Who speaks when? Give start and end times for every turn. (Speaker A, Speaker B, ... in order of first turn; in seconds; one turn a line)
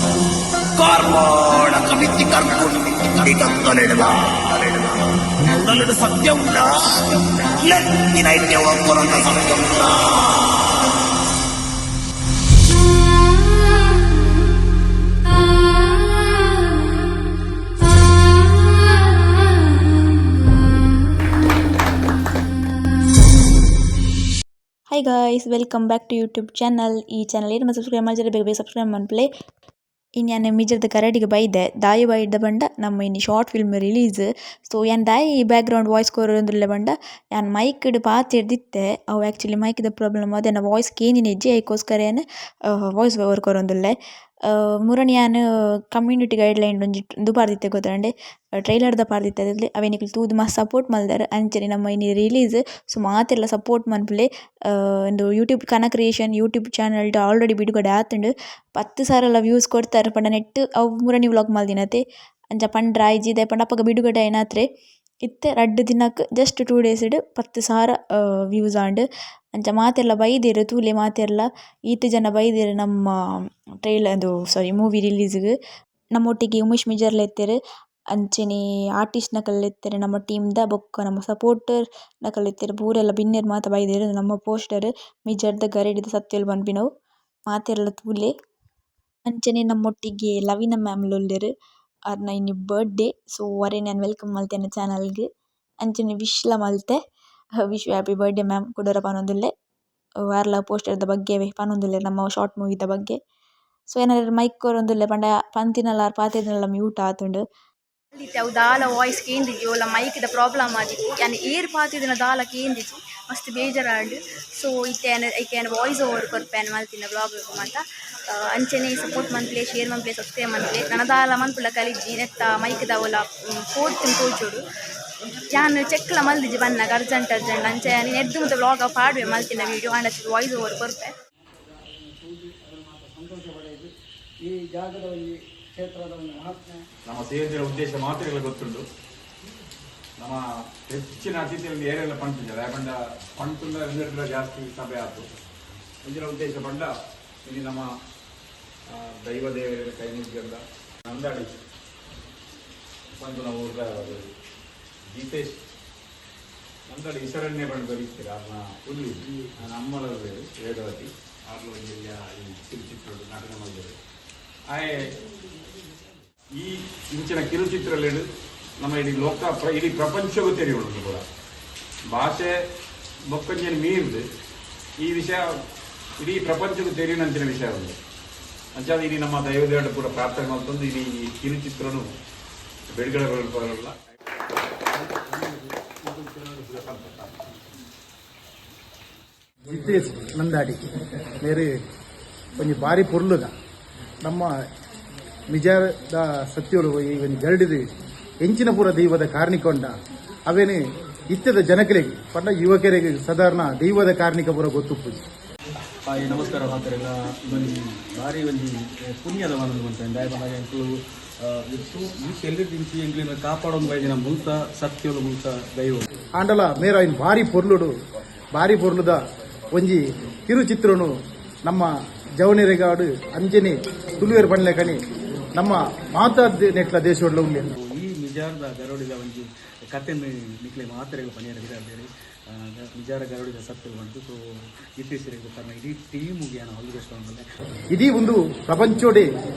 Speaker A: 0.8-10.5
Speaker B: 24.9-29.3
Speaker B: 30.2-64.7
Speaker B: 65.2-75.5
Speaker B: 76.1-77.6
Speaker B: 78.1-86.9
Speaker B: 87.5-88.3
Speaker B: 89.2-91.5
Speaker B: 92.1-95.3
Speaker B: 95.8-97.0
Speaker B: 97.6-99.5
Speaker B: 100.3-103.2
Speaker B: 103.9-107.4
Speaker C: 108.1-124.6
Speaker C: 125.5-131.1
Speaker D: 137.1-138.8
Speaker D: 140.2-145.3
Speaker D: 146.0-146.9
Speaker D: 147.4-147.9
Speaker D: 148.9-151.5
Speaker D: 153.2-154.2
Speaker D: 155.1-155.6
Speaker D: 156.9-163.9
Speaker D: 164.7-165.1
Speaker D: 166.6-168.2
Speaker D: 168.8-171.2
Speaker D: 172.1-172.5
Speaker D: 173.3-174.2
Speaker D: 175.0-175.5
Speaker D: 176.2-177.9
Speaker D: 178.8-182.1
Speaker D: 183.0-183.9
Speaker E: 185.0-185.6
Speaker D: 186.1-187.3
Speaker F: 189.7-190.8
Speaker F: 191.4-191.7
Speaker F: 192.6-193.5
Speaker F: 194.2-194.5
Speaker F: 195.5-197.8
Speaker F: 198.4-199.9
Speaker F: 200.5-200.8
Speaker F: 201.3-205.2
Speaker E: 206.0-216.1
Speaker F: 216.4-217.9
Speaker F: 218.6-221.1
Speaker F: 221.7-225.0
Speaker F: 225.6-227.7
Speaker E: 227.8-234.4
Speaker E: 235.0-237.4
Speaker F: 237.9-239.3